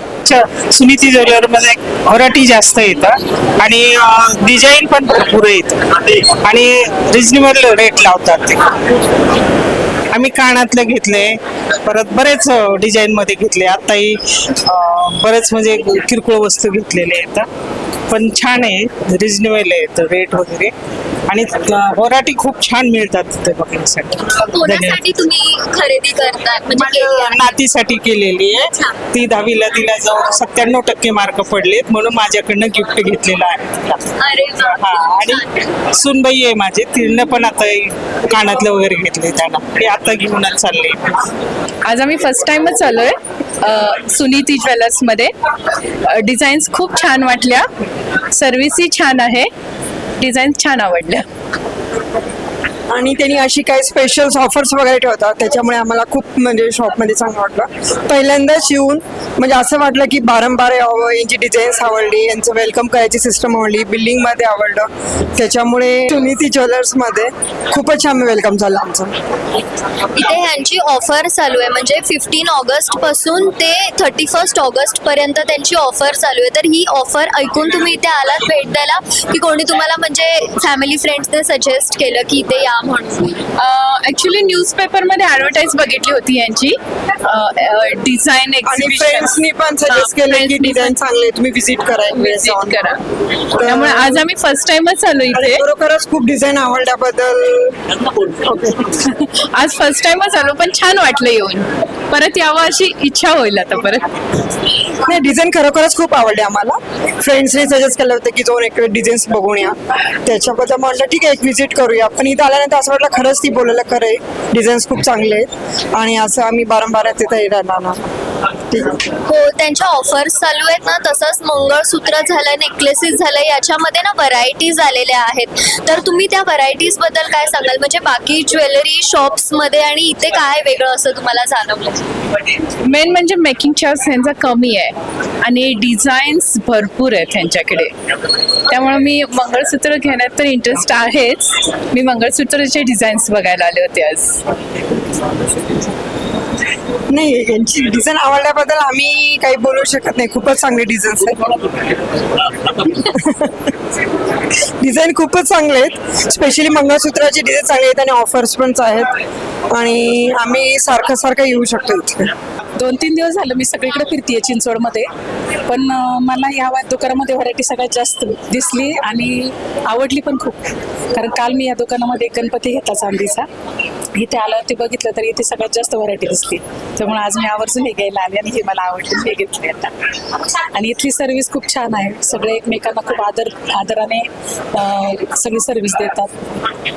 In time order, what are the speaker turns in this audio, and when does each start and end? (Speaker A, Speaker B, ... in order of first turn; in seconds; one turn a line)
Speaker A: 0.2-8.6
Speaker A: 10.1-17.5
Speaker A: 18.1-20.7
Speaker A: 21.3-25.0
Speaker B: 24.4-27.6
Speaker A: 26.8-34.0
Speaker B: 34.2-35.5
Speaker A: 34.8-35.4
Speaker A: 36.0-41.1
Speaker C: 41.9-45.3
Speaker C: 46.1-47.7
Speaker C: 48.3-49.5
Speaker C: 50.2-51.2
Speaker D: 52.9-69.1
Speaker B: 70.2-83.4
Speaker C: 83.6-91.0
Speaker D: 88.6-92.8
Speaker C: 92.1-93.0
Speaker D: 93.5-94.2
Speaker C: 93.6-95.6
Speaker D: 95.3-97.8
Speaker C: 98.9-104.1
Speaker D: 105.0-118.0
Speaker D: 118.7-119.0
Speaker B: 119.3-132.1
Speaker C: 132.8-137.9
Speaker C: 138.7-144.4
Speaker D: 147.1-151.5
Speaker D: 152.8-153.7
Speaker D: 154.8-159.1
Speaker D: 159.7-162.3
Speaker E: 162.8-165.1
Speaker E: 165.7-170.6
Speaker E: 171.2-173.5
Speaker E: 174.2-179.9
Speaker E: 180.7-186.3